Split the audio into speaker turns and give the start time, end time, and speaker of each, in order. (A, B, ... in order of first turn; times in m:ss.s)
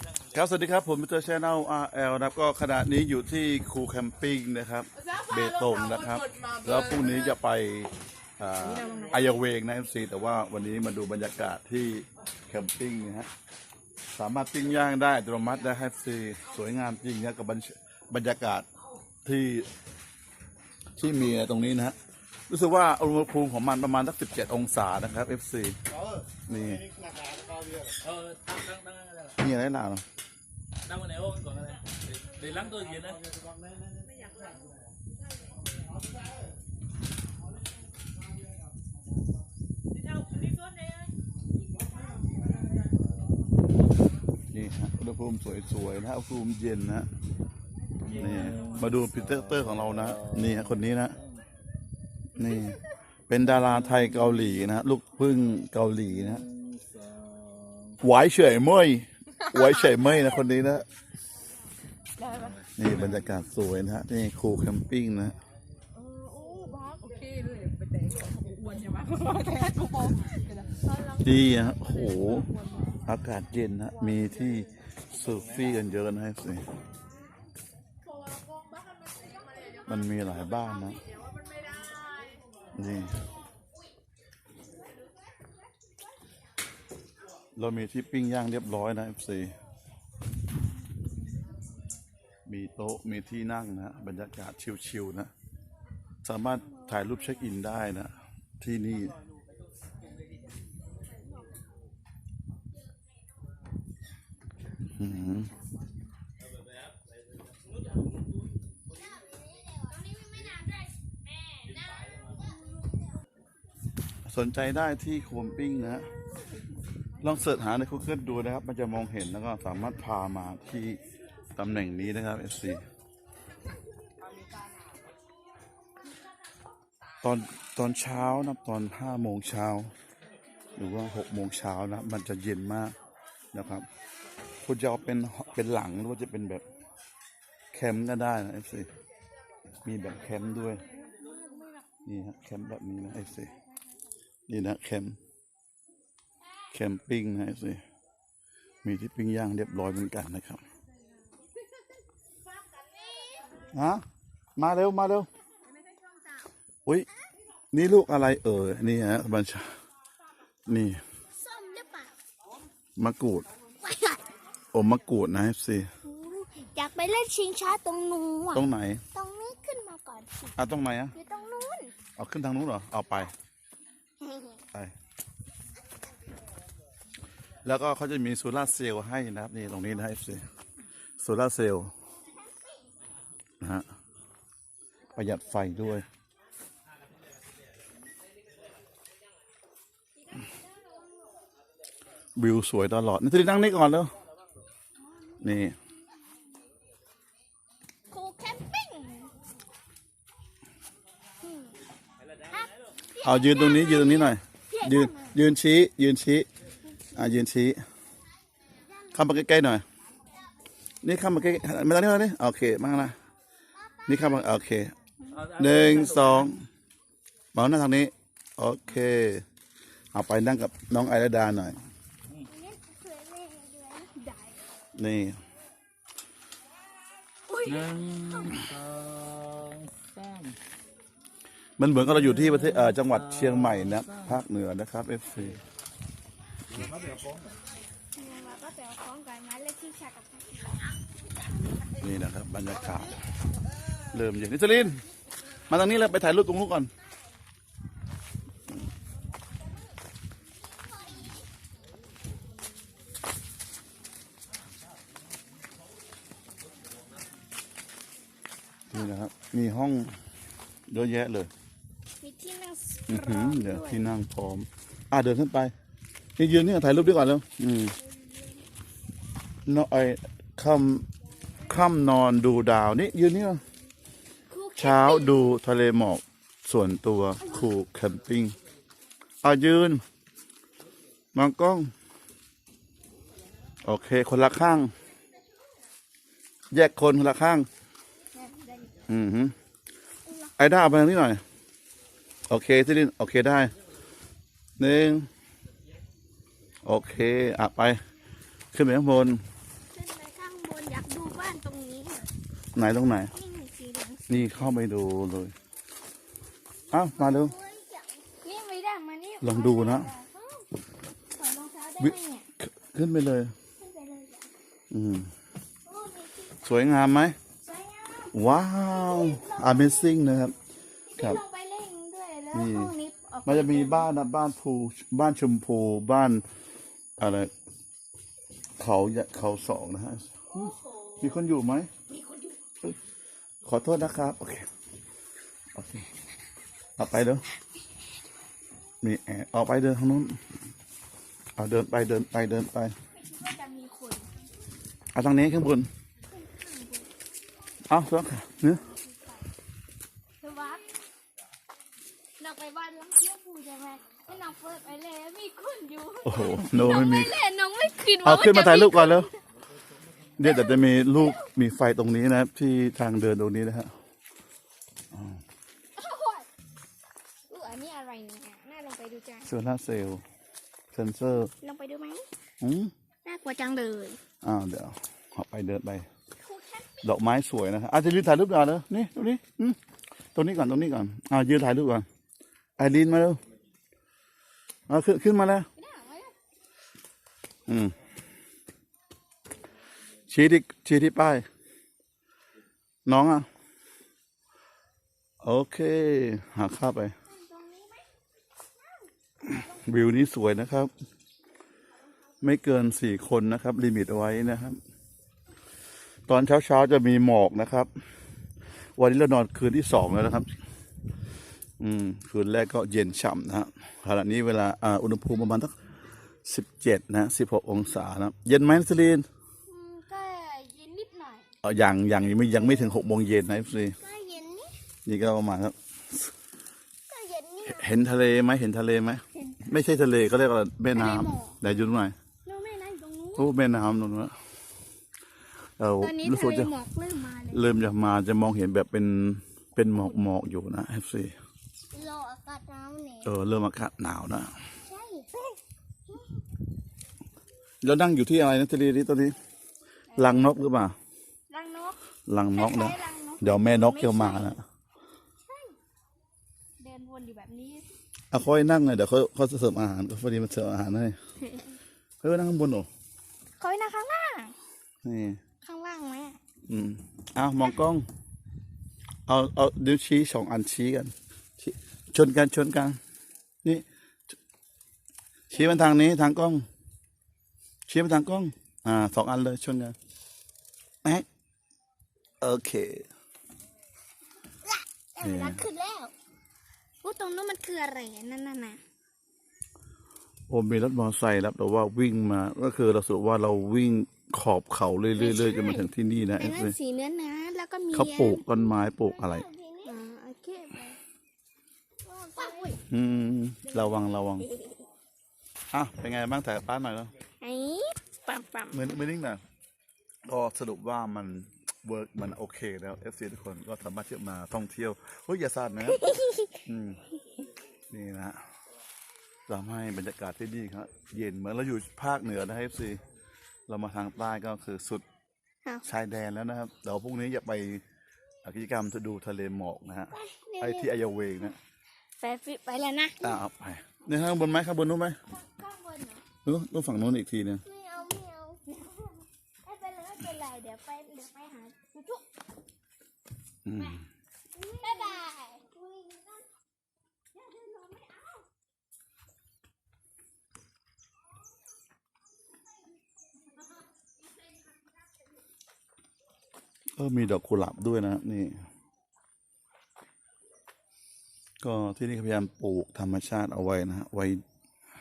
0:00.3-0:13.3 A
0:14.1-0:18.7 A
0:19.2-0:19.7 A
0:21.0-0:22.0 A
0:22.5-0:25.8 A
0:26.5-0:26.9 A
0:28.0-0:29.3 B
0:29.4-0:30.0 A
0:30.9-0:33.2 B
0:44.5-0:47.1 A
0:48.1-0:50.8 B
0:48.1-0:51.2 A
0:52.4-0:52.8 A
0:53.3-0:56.4 A
0:53.6-0:54.3 B
0:56.2-0:58.0 B
0:58.0-1:00.9 A
1:02.2-1:02.6 C
1:02.4-1:02.9 B
1:02.8-1:05.4 A
1:06.0-1:06.9 C
1:06.3-1:08.8 D
1:08.3-1:10.3 C
1:11.0-1:11.2 D
1:11.2-1:12.5 A
1:13.1-1:16.6 A
1:19.9-1:21.0 A
1:22.8-1:23.2 A
1:27.6-1:29.5 A
1:32.5-1:35.3 A
1:36.2-1:39.1 A
1:36.7-1:37.5 C
1:45.0-1:45.5 A
1:45.4-1:45.8 C
1:49.2-1:50.0 D
1:49.9-1:50.8 C
1:54.3-1:56.1 A
1:57.2-2:01.0 A
2:01.6-2:02.8 A
2:07.2-2:09.9 A
2:10.8-2:12.9 A
2:13.5-2:13.9 A
2:14.6-2:16.6 A
2:17.7-2:18.9 A
2:19.8-2:20.8 A
2:21.0-2:21.8 C
2:22.0-2:23.5 A
2:24.5-2:25.2 A
2:26.7-2:27.8 A
2:28.8-2:30.6 A
2:32.8-2:33.6 C
2:33.7-2:34.0 A
2:34.6-2:35.3 A
2:37.7-2:39.7 A
2:40.7-2:41.0 A
2:41.4-2:42.2 C
2:43.0-2:43.5 A
2:43.8-2:44.2 C
2:44.7-2:45.9 A
2:46.0-2:50.6 C
2:48.5-2:49.0 A
2:50.6-2:51.1 A
2:51.1-2:52.0 C
2:52.2-2:53.3 A
2:54.2-2:54.6 C
2:57.6-3:00.4 A
3:01.2-3:01.9 A
3:05.2-3:06.1 A
3:12.4-3:14.1 A
3:15.4-3:15.8 A
3:18.1-3:19.3 C
3:21.4-3:21.8 C
3:22.5-3:25.4 C
3:23.2-3:26.5 A
3:26.8-3:27.4 C
3:27.2-3:27.8 A
3:29.1-3:29.8 A
3:31.0-3:33.2 A
3:33.8-3:34.2 C
3:34.1-3:35.0 A
3:35.3-3:36.4 B
3:35.5-3:36.6 A
3:37.5-3:39.4 A
3:40.1-3:41.8 A
3:42.5-3:44.6 C
3:45.0-3:45.4 A
3:47.5-3:48.6 C
3:47.6-3:50.6 B
3:51.8-3:55.6 A
3:52.3-3:54.3 B
3:56.7-3:57.4 B
3:58.2-4:00.9 C
4:02.0-4:03.2 A
4:04.1-4:05.0 A
4:05.7-4:06.9 A
4:18.9-4:20.2 A
4:20.9-4:21.5 A
4:22.2-4:24.1 C
4:23.1-4:25.7 A
4:26.4-4:28.0 A
4:28.0-4:28.6 C
4:29.7-4:31.1 A
4:31.7-4:33.6 A
4:34.5-4:35.5 C
4:34.8-4:38.6 A
4:39.4-4:40.0 A
4:41.3-4:41.9 A
4:43.8-4:44.9 A
4:46.7-4:47.7 A
4:48.3-4:48.9 C
4:49.1-4:49.5 A
4:50.3-4:50.5 C
4:50.6-4:51.4 A
4:52.5-4:53.7 A
4:54.8-4:55.3 A
4:56.8-4:58.0 A
4:58.7-4:59.4 A
4:59.9-5:02.3 C
5:02.8-5:03.3 A
5:03.3-5:04.6 C
5:04.3-5:05.5 A
5:06.9-5:07.5 A
5:07.2-5:10.7 C
5:09.4-5:10.1 A
5:11.3-5:12.5 C
5:12.0-5:13.5 A
5:13.8-5:14.5 C
5:14.9-5:15.3 A
5:15.9-5:16.6 C
5:16.6-5:17.4 A
5:17.6-5:20.4 C
5:18.3-5:20.5 A
5:21.1-5:24.1 C
5:22.5-5:22.9 A
5:23.4-5:26.4 A
5:27.2-5:27.5 A
5:28.8-5:31.9 A
5:30.5-5:31.3 C
5:32.1-5:32.6 C
5:33.6-5:34.7 A
5:35.8-5:36.1 A
5:37.0-5:37.4 A
5:39.0-5:40.4 A
5:41.6-5:43.0 A
5:43.2-5:44.3 C
5:45.2-5:45.9 A
5:46.3-5:47.1 C
5:47.9-5:48.8 A
5:48.7-5:49.4 C
5:50.4-5:50.9 C
5:52.4-5:59.4 C
5:56.2-5:57.4 A
5:58.2-5:59.3 A
6:00.4-6:03.9 A
6:00.4-6:01.5 C
6:05.1-6:05.4 A
6:06.0-6:06.5 C
6:07.5-6:09.5 C
6:09.4-6:10.2 A
6:10.9-6:11.5 A
6:11.6-6:12.3 C
6:12.6-6:12.9 A
6:13.2-6:14.2 C
6:14.4-6:16.1 A
6:16.4-6:17.1 C
6:17.0-6:19.8 A
6:20.4-6:22.1 A
6:22.8-6:23.4 A
6:24.9-6:25.7 A
6:25.8-6:26.4 C
6:27.7-6:27.9 A
6:30.3-6:31.5 A
6:33.1-6:33.5 A
6:35.4-6:37.1 A
6:37.3-6:38.1 C
6:39.0-6:39.6 C
6:39.4-6:40.9 A
6:42.4-6:44.8 A
6:46.3-6:47.9 A
6:49.0-6:50.5 A
6:51.8-6:55.7 A
6:56.4-6:59.3 A
6:59.7-7:01.5 C
7:01.6-7:04.0 A
7:02.5-7:02.9 C
7:04.0-7:04.7 C
7:05.1-7:06.3 A
7:07.1-7:07.9 C
7:07.6-7:12.2 A
7:09.4-7:09.7 C
7:10.9-7:11.6 C
7:12.4-7:13.5 C
7:13.4-7:14.3 A
7:15.8-7:16.7 A
7:16.0-7:17.7 C
7:17.5-7:21.4 A
7:21.9-7:23.3 C
7:23.2-7:24.5 A
7:24.8-7:25.5 C
7:27.8-7:29.4 A
7:30.1-7:30.5 C
7:30.2-7:31.0 A
7:31.5-7:32.0 C
7:32.3-7:34.6 A
7:32.6-7:34.5 C
7:35.5-7:35.8 C
7:36.8-7:37.9 C
7:38.3-7:41.2 A
7:42.2-7:42.9 A
7:43.6-7:44.6 C
7:45.0-7:45.4 A
7:45.6-7:46.4 C
7:46.7-7:48.1 A
7:49.3-7:53.0 A
7:55.5-7:56.6 A
7:57.9-8:00.0 A
8:02.4-8:03.1 A
8:04.6-8:06.1 C
8:05.2-8:05.6 A
8:07.0-8:08.8 C
8:10.5-8:16.8 A
8:15.2-8:21.0 C
8:17.9-8:19.5 A
8:19.0-8:20.0 D
8:22.0-8:22.8 C
8:22.4-8:22.7 D
8:22.9-8:24.5 A
8:24.4-8:24.7 C
8:25.7-8:27.1 A
8:27.4-8:28.8 C
8:28.7-8:29.4 A
8:30.2-8:36.0 A
8:35.8-8:36.5 C
8:36.6-8:37.0 A
8:37.9-8:38.4 A
8:39.5-8:43.0 A
8:43.7-8:45.0 A
8:45.8-8:47.8 A
8:48.4-8:51.6 A
8:50.1-8:50.9 C
8:52.2-8:53.4 C
8:53.2-8:55.2 A
8:55.3-8:56.2 C
8:56.4-8:57.6 A
8:57.7-9:02.2 C
8:57.8-8:58.5 D
9:03.6-9:04.0 A
9:04.6-9:06.4 C
9:04.6-9:06.2 D
9:07.4-9:08.4 C
9:17.0-9:18.5 A
9:21.6-9:24.4 A